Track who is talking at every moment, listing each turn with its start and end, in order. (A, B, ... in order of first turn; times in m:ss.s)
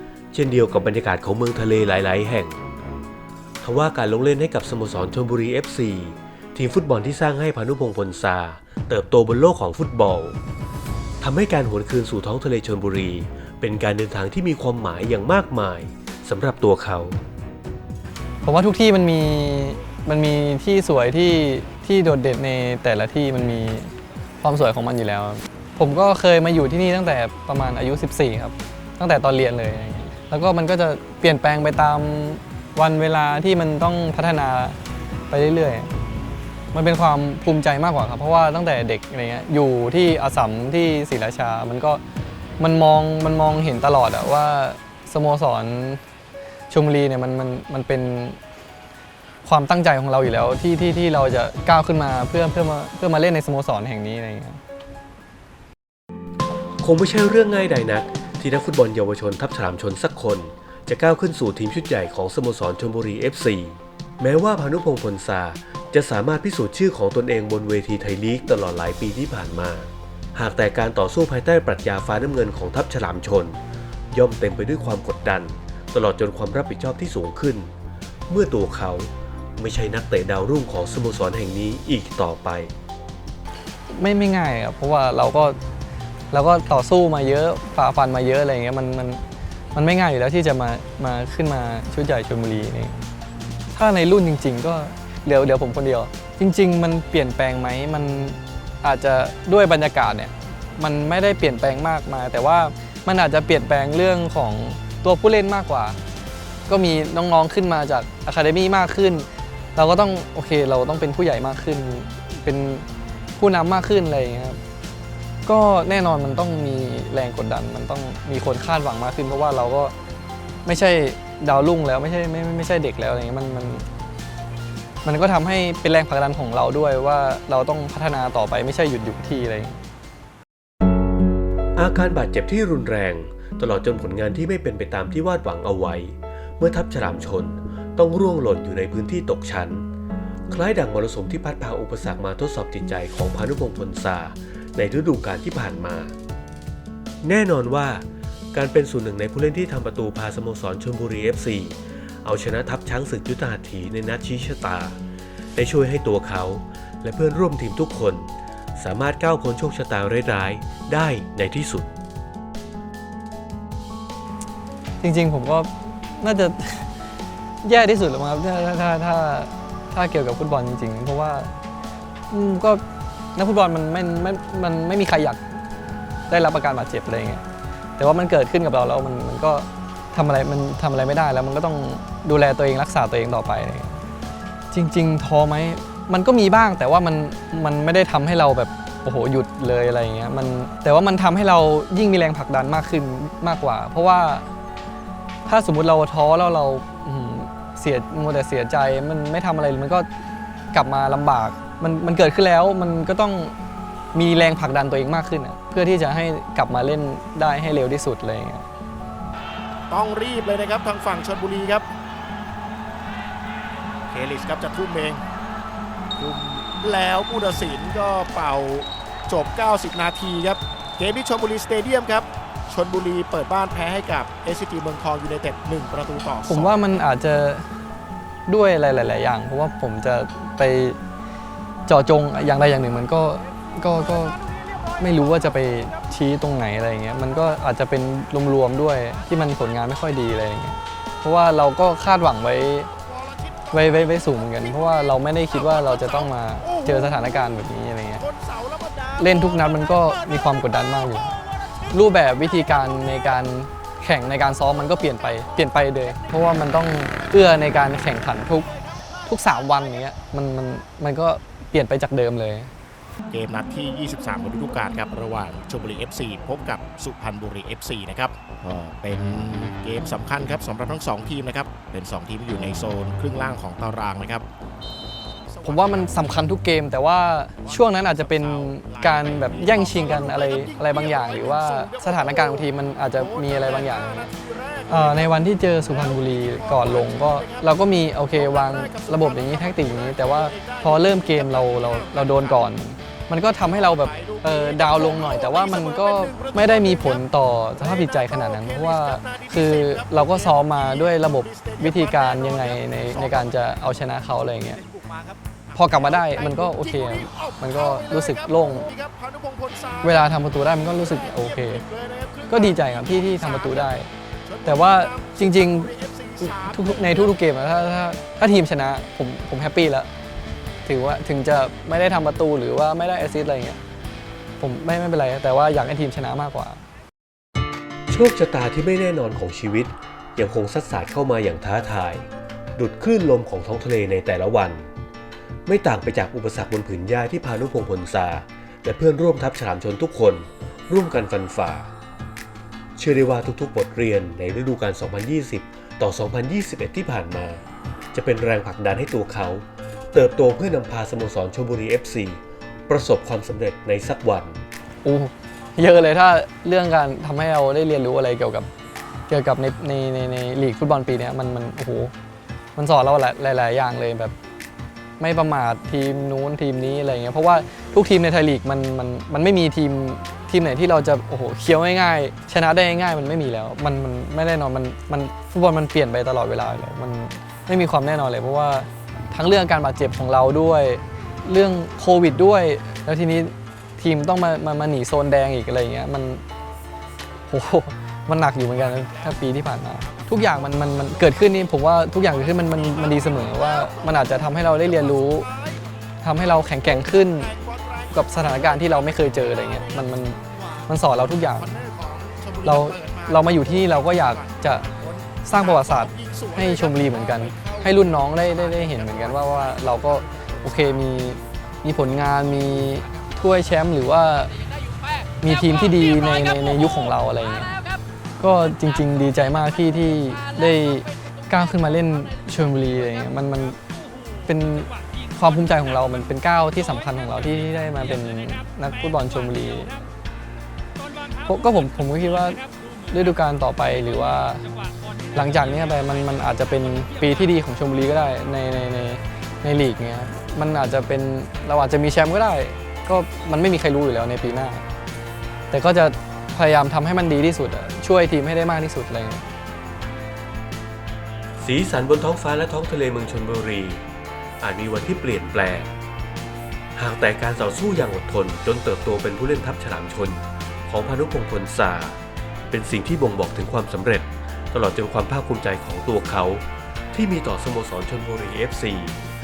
0:00.3-0:02.6 A
0:03.6-0:10.4 A
0:11.2-0:17.2 A
0:18.4-0:34.8 B
0:35.3-0:35.9 B
0:36.7-0:42.0 B
0:42.6-0:46.0 B
0:46.7-0:48.4 B
0:49.4-0:54.6 B
0:56.8-1:13.6 A
1:14.1-1:17.7 A
1:18.3-1:22.7 A
1:23.9-1:25.6 B
1:26.3-1:29.2 B
1:29.7-1:33.0 B
1:33.7-1:46.0 B
1:46.7-1:52.8 B
1:53.4-1:54.6 B
1:55.4-1:59.9 B
2:00.6-2:03.8 B
2:05.0-2:09.8 B
2:11.8-2:19.8 A
2:20.5-2:26.1 A
2:27.2-2:35.0 A
2:35.5-2:41.9 A
2:45.0-2:46.9 B
2:47.6-2:51.5 B
2:52.3-2:52.8 B
2:53.3-2:55.4 B
2:56.3-2:57.4 B
2:58.0-3:04.0 B
3:04.7-3:14.5 B
3:15.4-3:20.1 B
3:20.7-3:23.5 B
3:24.1-3:28.6 B
3:29.9-3:31.9 C
3:34.1-3:35.2 C
3:36.2-3:46.8 C
3:46.5-3:47.6 B
3:48.5-3:51.0 B
3:51.9-3:54.4 B
3:55.0-4:02.9 B
4:03.7-4:08.2 B
4:05.7-4:07.2 C
4:08.2-4:10.1 C
4:09.2-4:11.4 B
4:11.9-4:18.7 B
4:19.2-4:22.7 B
4:23.3-4:34.4 C
4:35.5-4:36.4 C
4:35.6-4:44.3 B
4:37.6-4:52.7 C
4:44.9-5:04.8 B
4:53.6-5:17.4 C
5:05.7-5:08.9 B
5:10.0-5:11.8 B
5:12.5-5:14.1 B
5:14.6-5:20.1 B
5:20.8-5:23.8 B
5:24.6-5:26.8 B
5:28.1-5:34.9 A
5:35.6-5:41.9 A
5:43.0-5:47.6 A
5:48.1-5:54.6 A
5:55.0-5:58.7 B
5:59.3-6:02.1 B
6:02.7-6:04.3 B
6:05.2-6:26.4 B
6:27.5-6:35.4 B
6:32.4-6:35.8 C
6:36.2-6:37.5 B
6:36.7-6:40.6 C
6:38.1-6:41.8 B
6:41.5-6:50.2 C
6:42.6-6:44.8 B
6:45.4-6:54.5 B
6:55.4-6:57.8 B
6:58.4-7:03.8 B
7:04.4-7:09.9 B
7:11.4-7:14.6 B
7:15.3-7:24.8 B
7:25.7-7:29.4 B
7:31.6-7:34.0 A
7:34.6-7:35.9 A
7:36.9-7:49.2 A